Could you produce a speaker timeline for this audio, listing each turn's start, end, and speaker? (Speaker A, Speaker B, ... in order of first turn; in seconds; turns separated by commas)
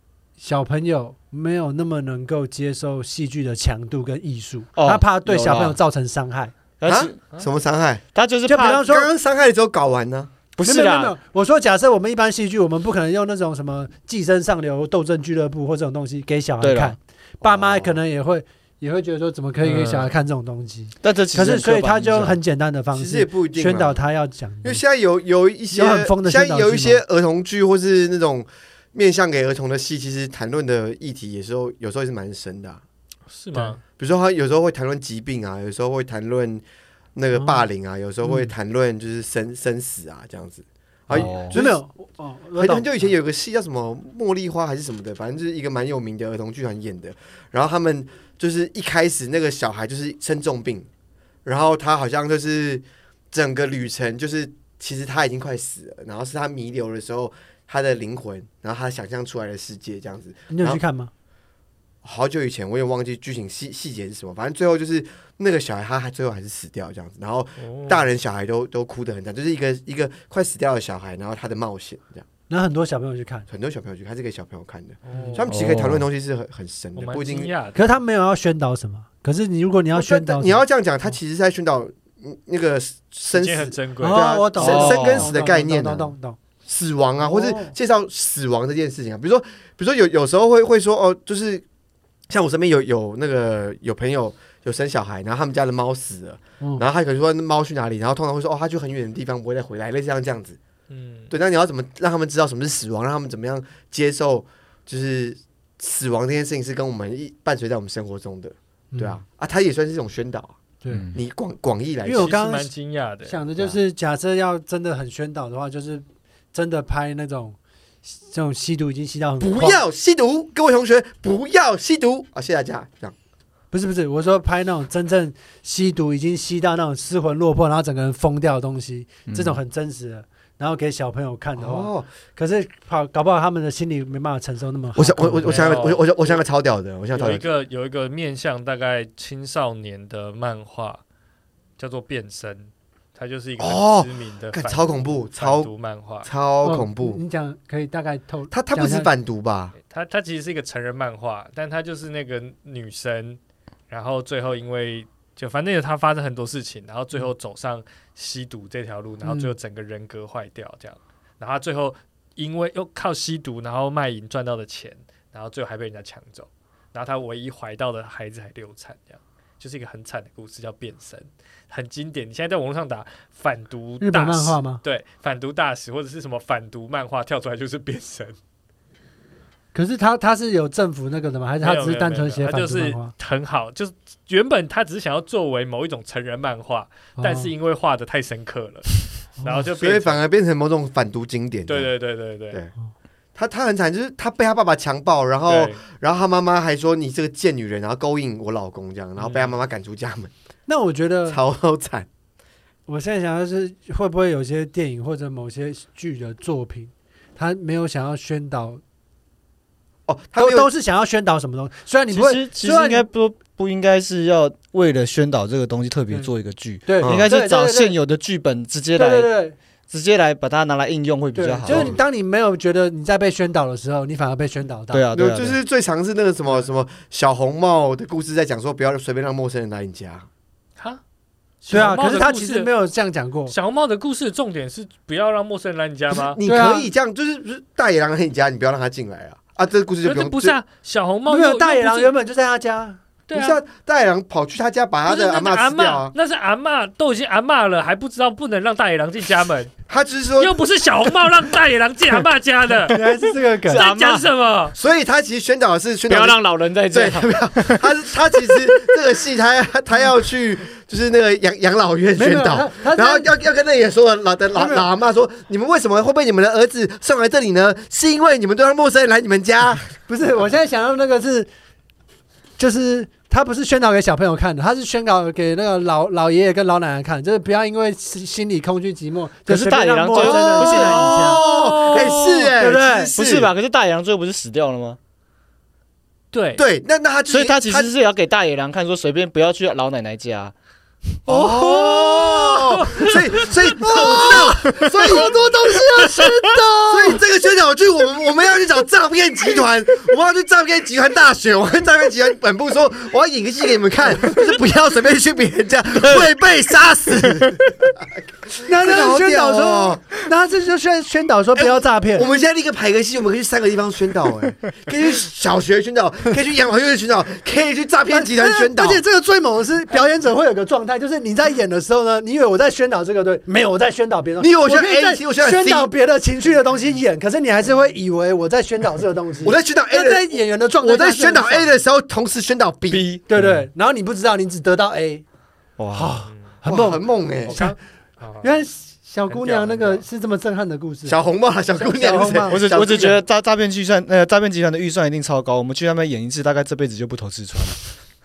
Speaker A: 0.4-6.5, Speaker B: 4.8-5.8, Speaker B: 6.8-7.2, Speaker C: 6.8-8.0, Speaker B: 8.1-8.8, Speaker A: 8.4-9.1, Speaker C: 8.7-10.3, Speaker B: 10.5-11.1, Speaker A: 10.6-24.8, Speaker B: 16.6-16.9, Speaker C: 17.4-17.9, Speaker D: 19.6-20.0, Speaker B: 21.0-22.4, Speaker C: 22.9-24.0, Speaker C: 24.6-32.8, Speaker A: 25.7-27.0, Speaker D: 33.3-33.8, Speaker C: 33.9-36.6, Speaker C: 37.1-41.8, Speaker A: 37.4-37.6, Speaker A: 38.2-38.5, Speaker A: 41.1-43.1, Speaker B: 41.1-41.5, Speaker C: 42.6-50.9, Speaker C: 51.4-60.8, Speaker A: 60.5-61.1, Speaker C: 62.0-72.2, Speaker D: 67.6-68.0, Speaker A: 72.5-73.5, Speaker C: 73.5-77.5, Speaker D: 75.0-75.5, Speaker B: 75.5-76.0, Speaker D: 77.0-77.8, Speaker A: 77.7-80.6, Speaker C: 79.9-86.1, Speaker D: 83.3-84.4, Speaker A: 84.0-86.4, Speaker B: 84.6-85.3, Speaker C: 86.7-91.6, Speaker A: 87.2-87.7, Speaker C: 92.3-100.6, Speaker D: 100.9-101.3, Speaker C: 101.3-110.5, Speaker A: 108.9-109.2, Speaker B: 110.9-111.2, Speaker C: 111.1-112.4, Speaker A: 112.0-112.7, Speaker D: 112.1-113.4, Speaker A: 113.2-119.8, Speaker C: 119.4-123.1, Speaker A: 123.7-135.7, Speaker B: 129.3-129.6, Speaker C: 131.6-132.1, Speaker C: 134.9-137.4, Speaker D: 135.4-136.4, Speaker D: 137.1-141.0, Speaker D: 141.8-146.3, Speaker C: 143.6-145.7, Speaker C: 146.2-147.2, Speaker A: 146.6-149.1, Speaker C: 148.5-149.7, Speaker D: 149.9-178.4, Speaker A: 159.2-159.5, Speaker A: 174.0-174.8, Speaker A: 179.7-183.1, Speaker D: 181.6-190.2, Speaker A: 187.2-187.5, Speaker C: 189.7-191.9, Speaker D: 191.7-192.6, Speaker C: 193.3-200.3, Speaker D: 195.5-195.8, Speaker D: 199.2-199.5, Speaker A: 200.7-201.4, Speaker C: 201.3-202.1, Speaker A: 202.9-208.8, Speaker C: 210.1-210.7, Speaker A: 210.3-213.1, Speaker B: 212.1-219.3, Speaker A: 216.8-217.9, Speaker C: 217.0-217.3, Speaker A: 218.9-219.6, Speaker B: 219.9-221.9, Speaker A: 221.3-225.0, Speaker C: 221.7-222.0, Speaker B: 224.9-225.6, Speaker C: 225.1-230.3, Speaker D: 231.6-232.7, Speaker A: 231.7-233.5, Speaker D: 233.5-236.4, Speaker C: 236.1-240.6, Speaker A: 236.4-236.9, Speaker D: 240.0-242.1, Speaker A: 241.3-243.0, Speaker D: 243.3-243.6, Speaker C: 243.3-246.1, Speaker D: 245.1-249.7, Speaker C: 249.9-250.6, Speaker D: 250.4-253.0, Speaker A: 252.9-253.9, Speaker B: 253.7-254.3, Speaker D: 253.7-254.8, Speaker C: 254.7-269.9, Speaker B: 256.1-257.8, Speaker A: 262.1-263.3, Speaker A: 264.5-264.8, Speaker A: 270.1-271.5, Speaker A: 272.6-281.4, Speaker B: 279.5-281.1, Speaker C: 280.1-283.5, Speaker D: 280.6-282.5, Speaker A: 282.6-283.1, Speaker B: 283.1-285.0, Speaker D: 286.3-286.6, Speaker C: 286.5-287.9, Speaker B: 287.3-290.5, Speaker D: 291.3-293.7, Speaker C: 291.3-296.1, Speaker A: 293.8-297.2, Speaker C: 296.9-310.0, Speaker A: 308.6-312.3, Speaker C: 311.6-319.0, Speaker A: 318.1-331.7, Speaker C: 324.4-325.9, Speaker C: 329.4-333.0, Speaker B: 332.9-333.6, Speaker A: 333.3-335.2, Speaker B: 335.8-336.1, Speaker A: 335.9-337.8, Speaker C: 336.6-337.6, Speaker D: 337.5-338.5, Speaker A: 338.4-341.2, Speaker D: 339.3-340.0, Speaker C: 341.1-343.2, Speaker A: 341.8-343.0, Speaker B: 342.5-347.8